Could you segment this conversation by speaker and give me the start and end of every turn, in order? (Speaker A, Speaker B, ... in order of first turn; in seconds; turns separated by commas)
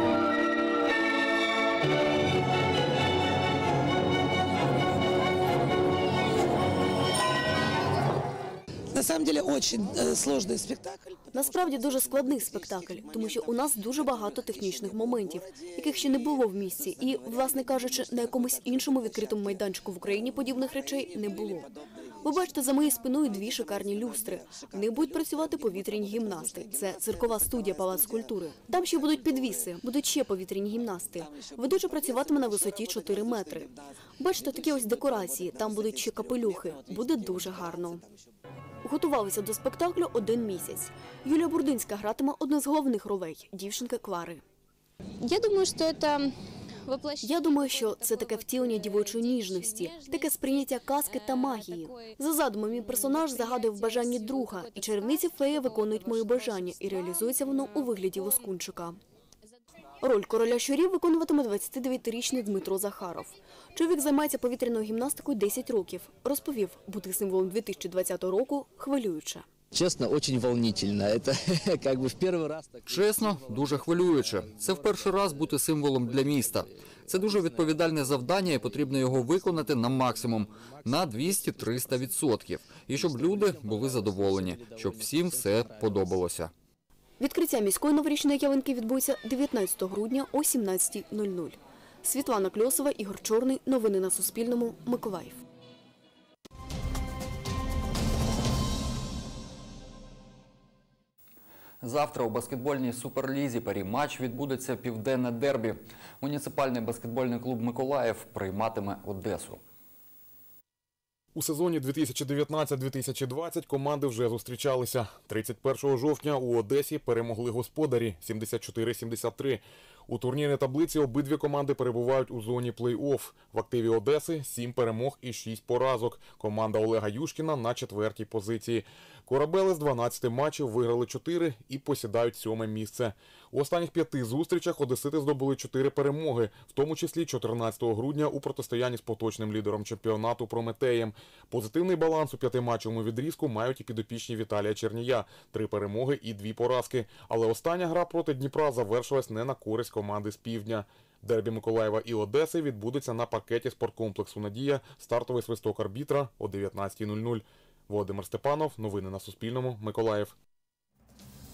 Speaker A: 8.9-11.4, Speaker B: 11.3-21.7, Speaker A: 21.4-21.7, Speaker B: 22.2-38.0, Speaker B: 38.8-44.4, Speaker C: 45.2-46.3, Speaker C: 46.9-50.2, Speaker B: 47.2-59.0, Speaker C: 53.1-53.4, Speaker B: 60.0-69.5, Speaker D: 69.7-75.2, Speaker E: 72.9-86.5, Speaker D: 76.0-82.2, Speaker D: 82.9-86.3, Speaker B: 87.2-95.4, Speaker E: 101.8-109.6, Speaker F: 111.3-160.3